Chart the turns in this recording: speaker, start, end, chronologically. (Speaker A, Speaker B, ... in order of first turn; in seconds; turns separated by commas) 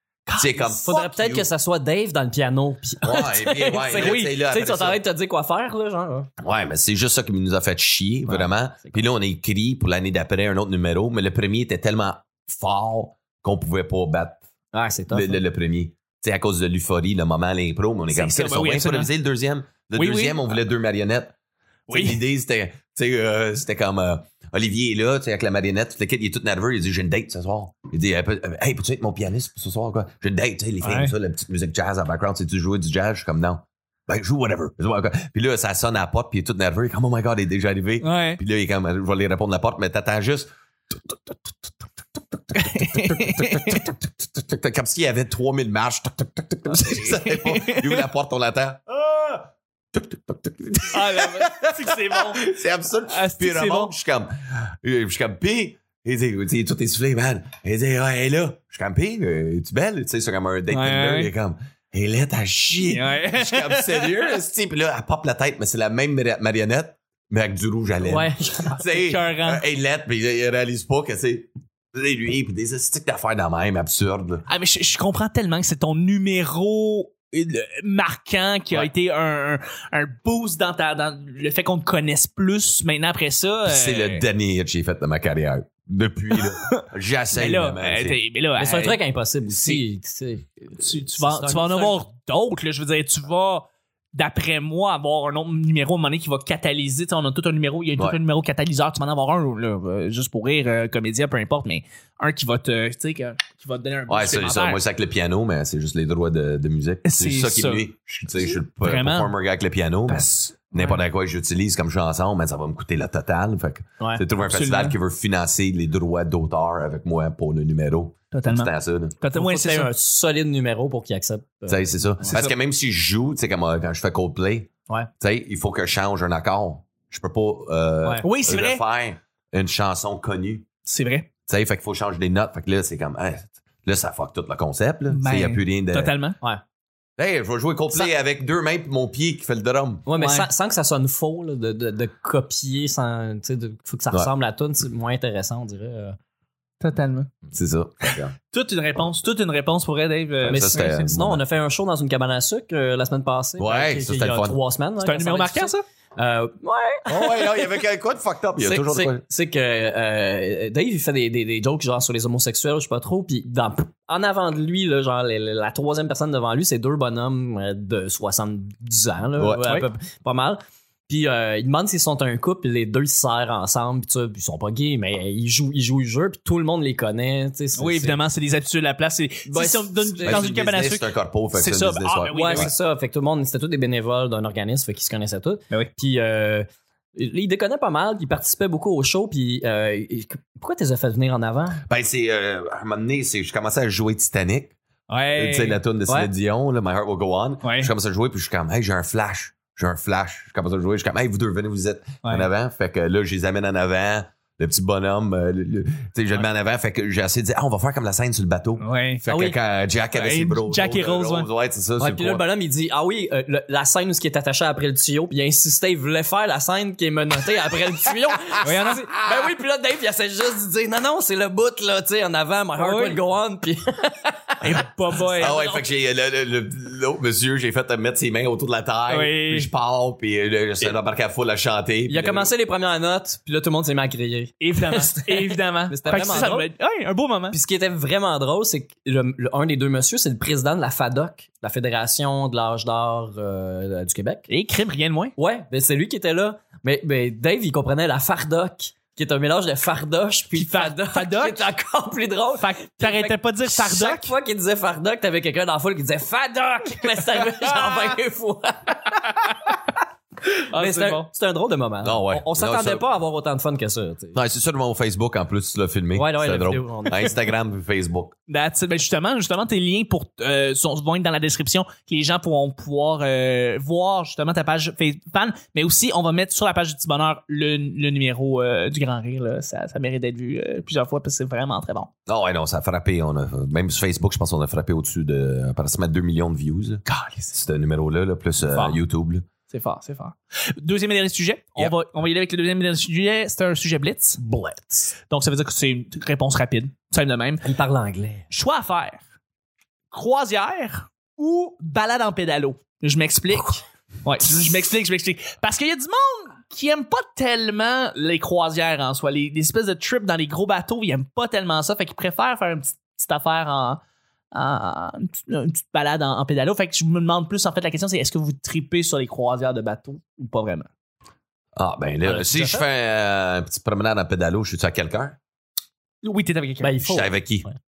Speaker A: 0.3-0.8, Speaker B: 0.3-1.5, Speaker C: 0.7-6.3, Speaker B: 3.0-5.0, Speaker B: 6.4-14.4, Speaker C: 8.3-9.0, Speaker C: 14.7-15.4, Speaker B: 15.1-21.3, Speaker A: 18.1-19.1, Speaker A: 19.9-20.6, Speaker A: 21.9-22.2, Speaker B: 21.9-74.5, Speaker A: 30.8-31.1, Speaker A: 38.0-38.4, Speaker A: 42.5-43.9, Speaker A: 46.8-48.1, Speaker A: 50.9-52.5, Speaker A: 53.1-53.9, Speaker A: 60.7-61.3, Speaker A: 62.9-64.2, Speaker C: 68.0-68.8, Speaker A: 68.8-69.6, Speaker A: 74.5-84.2, Speaker B: 83.7-88.2, Speaker A: 86.4-89.0, Speaker C: 88.6-92.0, Speaker A: 89.5-89.8, Speaker A: 90.8-104.8, Speaker B: 104.1-119.2, Speaker A: 107.0-107.9, Speaker A: 108.8-109.3, Speaker A: 110.1-111.0, Speaker A: 114.4-115.0, Speaker A: 118.3-119.9, Speaker C: 119.3-122.4, Speaker B: 121.7-124.7, Speaker B: 125.2-130.7, Speaker A: 128.2-128.8, Speaker A: 130.9-131.3, Speaker B: 131.5-136.2, Speaker A: 135.1-136.4, Speaker B: 137.2-140.1, Speaker C: 140.1-146.2, Speaker A: 140.2-140.5, Speaker A: 146.8-147.3, Speaker B: 147.5-148.3, Speaker A: 148.1-150.9, Speaker B: 150.4-151.4, Speaker C: 150.4-157.5, Speaker B: 153.6-154.6, Speaker A: 155.0-155.8, Speaker B: 157.1-159.2, Speaker C: 158.6-178.2, Speaker B: 169.4-169.7, Speaker A: 177.8-182.7, Speaker C: 179.5-180.5, Speaker B: 180.2-182.7, Speaker C: 182.3-191.8, Speaker B: 191.9-194.8, Speaker A: 195.1-195.8, Speaker B: 195.3-212.4, Speaker A: 197.6-197.9, Speaker A: 202.2-202.5, Speaker A: 208.8-209.2, Speaker A: 210.1-211.5, Speaker C: 212.0-224.8, Speaker A: 218.6-219.1, Speaker A: 222.8-223.2, Speaker A: 224.6-225.8, Speaker B: 225.3-232.5, Speaker A: 229.1-229.7, Speaker C: 232.1-236.7, Speaker A: 234.6-237.6, Speaker C: 237.5-244.5, Speaker A: 244.5-245.3, Speaker C: 245.4-259.7, Speaker A: 250.5-251.7, Speaker A: 252.6-254.3, Speaker A: 260.7-261.3, Speaker C: 260.7-264.4, Speaker B: 262.0-263.1, Speaker B: 264.3-268.4, Speaker C: 266.1-267.4, Speaker A: 268.5-282.1, Speaker B: 282.3-289.4, Speaker A: 287.1-287.5, Speaker A: 289.7-294.4, Speaker C: 294.4-295.1, Speaker A: 295.3-297.7, Speaker C: 297.6-298.5, Speaker A: 298.5-299.2, Speaker A: 300.1-314.0, Speaker A: 314.5-320.9, Speaker B: 321.8-325.4, Speaker C: 322.2-322.8, Speaker A: 326.2-327.0, Speaker C: 326.8-327.8, Speaker B: 327.0-327.7